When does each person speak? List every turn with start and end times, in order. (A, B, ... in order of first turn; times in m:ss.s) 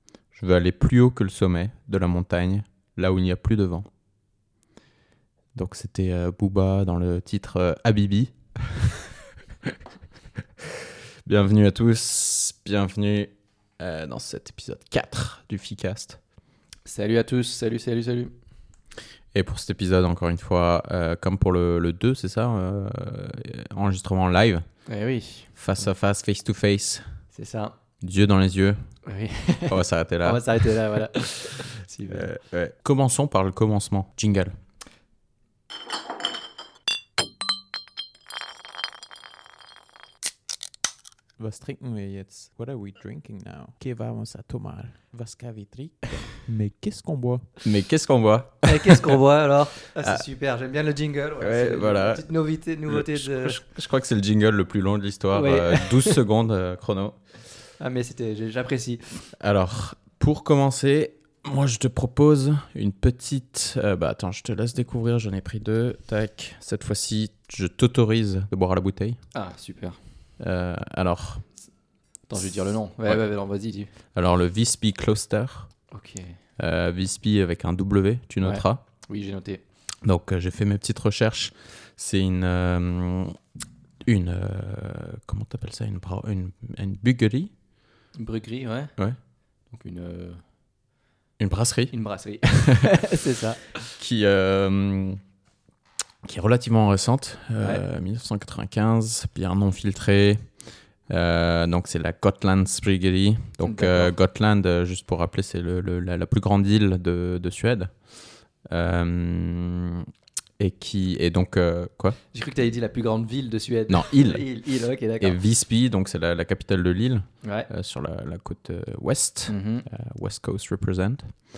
0:00.3-0:03.9 A
0:05.5-0:09.0 A
0:11.2-0:16.2 A
0:16.8-0:18.3 B
0:19.3-0:24.6 A
0:24.8-0:25.5 B
0:25.5-0:27.2 A
0:27.3-0:27.8 B
0:28.0-0:28.8 A
0:29.0-0:32.3 B
0:29.7-0:30.4 A
0:31.4-0:34.6 A
0:41.4-0:47.4 C
0:46.1-0:46.5 A
0:47.5-0:49.2 A
0:48.6-0:53.6 B
0:49.8-0:50.2 A
0:51.4-0:52.2 A
0:52.9-0:57.2 A
0:55.3-0:56.2 B
0:57.8-0:59.2 B
0:59.4-1:09.2 A
1:09.3-1:10.0 B
1:10.4-1:11.4 A
1:12.3-1:13.9 B
1:14.1-1:15.7 A
1:15.9-1:16.4 B
1:16.6-1:18.8 A
1:18.4-1:19.6 B
1:20.0-1:23.4 A
1:24.1-1:27.5 A
1:28.2-1:28.9 B
1:29.7-1:30.4 B
1:31.4-1:31.9 A
1:31.9-1:33.7 B
1:32.5-1:32.9 A
1:33.9-1:35.2 A
1:36.2-1:40.4 A
1:41.1-1:48.0 A
1:43.6-1:44.1 B
1:48.7-1:50.1 A
1:50.6-1:52.2 A
1:52.3-1:55.4 B
1:53.9-1:54.4 A
1:55.2-2:01.4 A
1:57.4-1:57.7 B
1:59.5-1:59.8 B